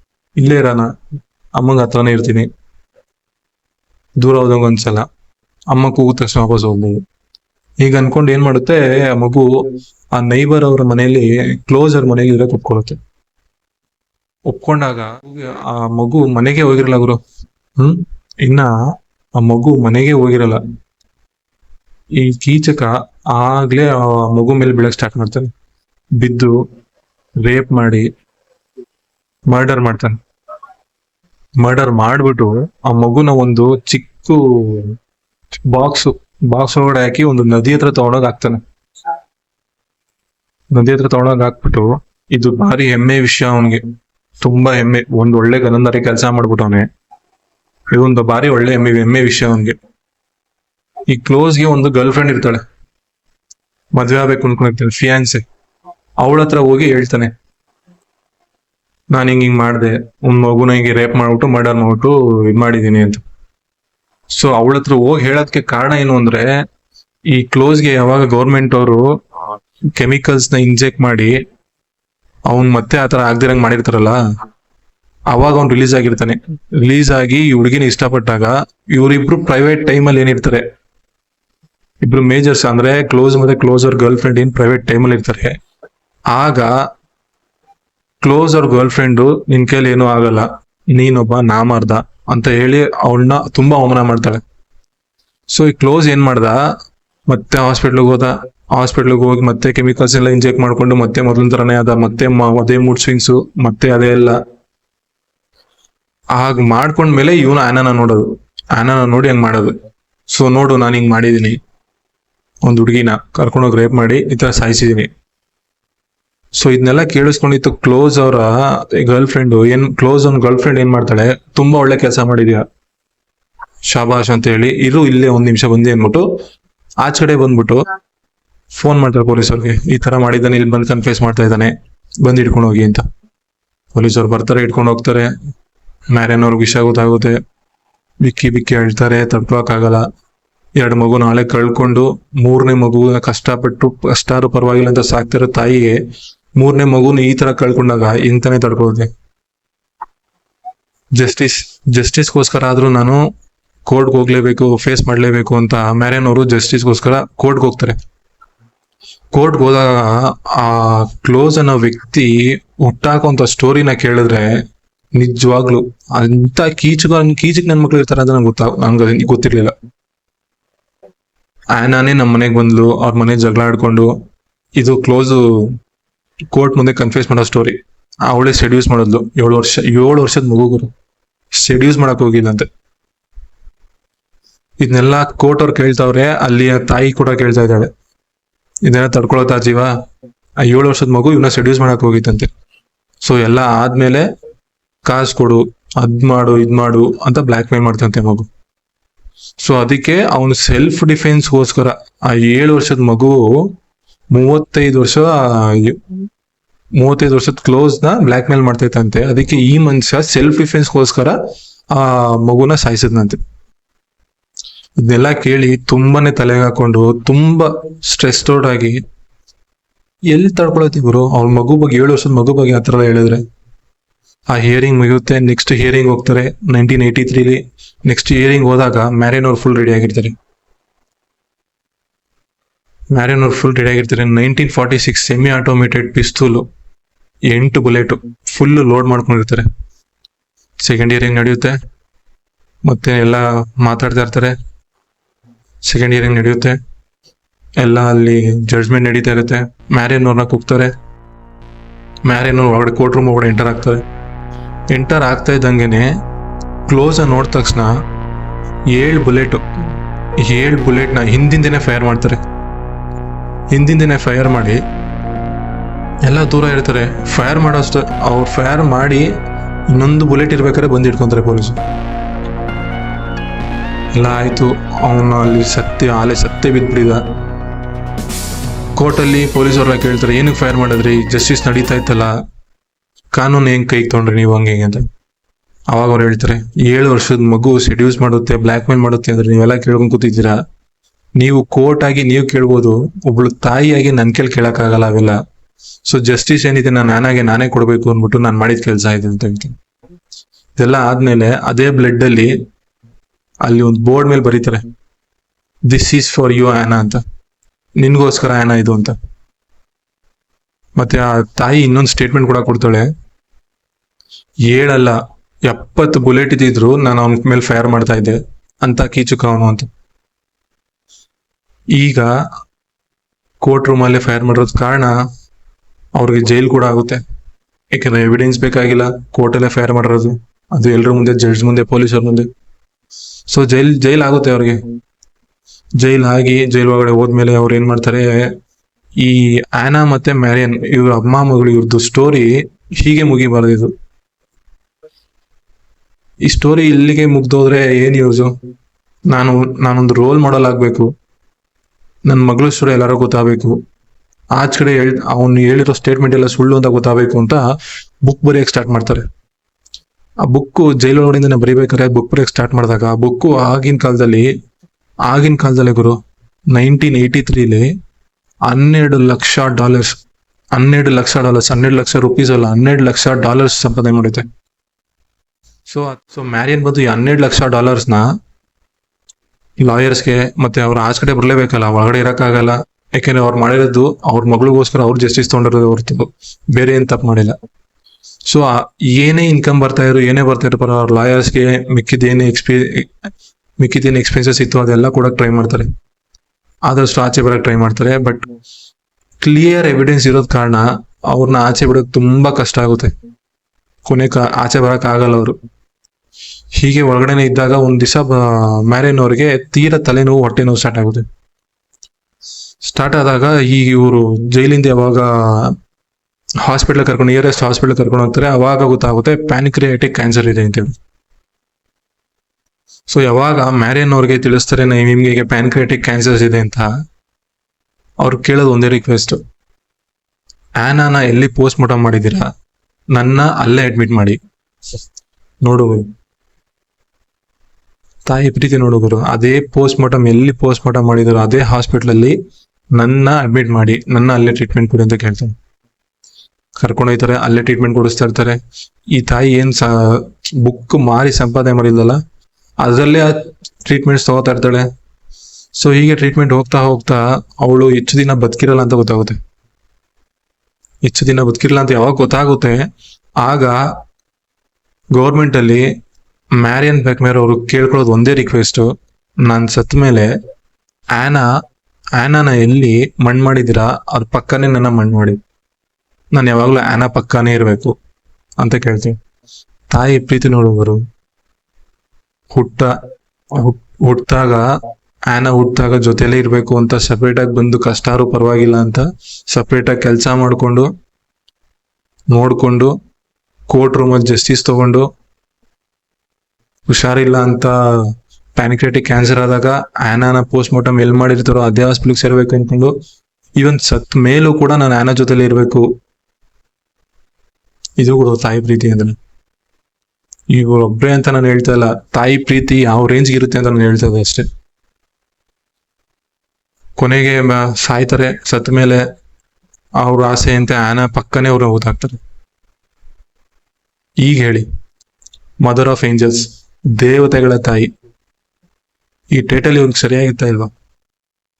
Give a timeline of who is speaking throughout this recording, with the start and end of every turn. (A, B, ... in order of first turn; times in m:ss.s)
0:00.4-0:00.9 A
0:01.6-0:02.5 A
0:04.2-0:05.0 A
0:05.7-0:07.0 A
0:07.8-0:09.5 A
0:10.1-0:13.0 A
0:14.5-0:17.2 A
0:17.8-0:18.7 A
0:19.4-0:20.6 A
0:22.2-0:25.5 A
0:26.2-0:26.6 A
0:27.4-0:28.1 A
0:29.5-0:30.2 A
0:31.6-0:34.9 A
0:35.7-0:38.6 A
0:40.7-0:43.8 A
0:44.4-0:46.8 A
0:47.9-0:49.8 A
0:51.1-0:52.6 A
0:53.9-0:55.4 A
0:56.2-0:57.3 A
0:59.1-1:03.2 A
1:04.3-1:06.5 A
1:07.3-1:09.0 A
1:09.9-1:11.3 A
1:12.5-1:14.2 A
1:15.3-1:20.6 A
1:22.0-1:25.5 A
1:26.3-1:26.7 A
1:28.2-1:34.4 A
1:35.5-1:36.6 A
1:37.3-1:44.4 A
1:46.3-1:49.7 A
1:50.3-1:51.6 A
1:52.6-1:55.1 A
1:56.6-2:02.6 A
2:03.9-2:06.2 A
2:07.0-2:07.8 A
2:08.7-2:13.0 A
2:13.9-2:15.3 A
2:16.1-2:17.4 A
2:18.2-2:20.0 A
2:20.8-2:26.0 A
2:26.6-2:29.1 A
2:31.1-2:33.2 A
2:33.8-2:38.0 A
2:39.3-2:44.6 A
2:45.2-2:49.7 A
2:51.7-2:54.1 A
2:54.8-2:55.7 A
2:56.5-3:00.9 A
3:01.6-3:02.6 A
3:04.8-3:07.9 A
3:08.8-3:09.9 A
3:10.6-3:12.5 A
3:13.2-3:14.2 A
3:15.0-3:18.4 A
3:19.6-3:23.7 A
3:24.3-3:26.0 A
3:27.0-3:31.4 A
3:31.9-3:33.4 A
3:35.0-3:39.0 A
3:40.3-3:43.4 A
3:44.5-3:50.3 A
3:53.1-3:56.6 A
3:57.5-3:59.6 A
4:00.8-4:01.8 A
4:02.8-4:04.5 A
4:05.8-4:06.8 A
4:07.8-4:10.9 A
4:12.2-4:14.0 A
4:14.9-4:16.1 A
4:16.9-4:17.9 A
4:18.9-4:19.6 A
4:20.4-4:22.4 A
4:23.7-4:24.8 A
4:26.2-4:29.3 A
4:29.9-4:31.8 A
4:34.1-4:37.2 A
4:38.9-4:42.3 A
4:43.3-4:45.0 A
4:45.9-4:50.5 A
4:51.4-4:55.4 A
4:56.0-4:59.7 A
5:00.8-5:02.5 A
5:03.6-5:04.9 A
5:05.9-5:07.2 A
5:08.0-5:09.2 A
5:11.0-5:13.1 A
5:14.7-5:19.9 A
5:21.9-5:22.3 A
5:23.6-5:25.1 A
5:26.2-5:27.2 A
5:27.9-5:32.5 A
5:33.5-5:34.8 A
5:36.0-5:38.5 A
5:39.2-5:43.9 A
5:46.4-5:48.5 A
5:49.3-5:51.1 A
5:52.3-5:53.7 A
5:54.5-5:57.6 A
5:58.2-5:59.2 A
6:00.4-6:04.5 A
6:05.3-6:06.2 A
6:06.7-6:07.9 A
6:08.7-6:10.2 A
6:10.7-6:14.4 A
6:15.9-6:18.2 A
6:19.8-6:27.5 A
6:28.4-6:33.1 A
6:33.8-6:35.9 A
6:36.9-6:38.5 A
6:39.4-6:43.1 A
6:44.0-6:45.6 A
6:46.7-6:51.2 A
6:52.8-6:55.7 A
6:56.6-7:01.0 A
7:03.1-7:06.9 A
7:08.2-7:09.4 A
7:10.8-7:12.5 A
7:13.1-7:14.4 A
7:15.6-7:16.1 A
7:18.2-7:22.3 A
7:23.0-7:25.5 A
7:26.8-7:28.6 A
7:29.1-7:32.2 A
7:32.8-7:34.9 A
7:35.8-7:39.4 A
7:41.0-7:42.8 A
7:43.4-7:43.8 A
7:45.1-7:45.8 A
7:46.6-7:48.9 A
7:49.4-7:50.3 A
7:51.1-7:51.5 A
7:52.2-7:55.4 A
7:56.3-7:57.9 A
7:58.6-7:59.2 A
7:59.9-8:01.0 A
8:02.5-8:02.9 A
8:03.5-8:04.6 A
8:05.3-8:10.9 A
8:12.3-8:12.9 A
8:13.7-8:15.0 A
8:16.9-8:17.7 A
8:18.5-8:22.9 A
8:23.6-8:25.8 A
8:28.0-8:29.2 A
8:30.5-8:34.4 A
8:37.0-8:39.0 A
8:40.0-8:42.2 A
8:44.2-8:44.7 A
8:45.6-8:47.9 A
8:49.3-8:50.7 A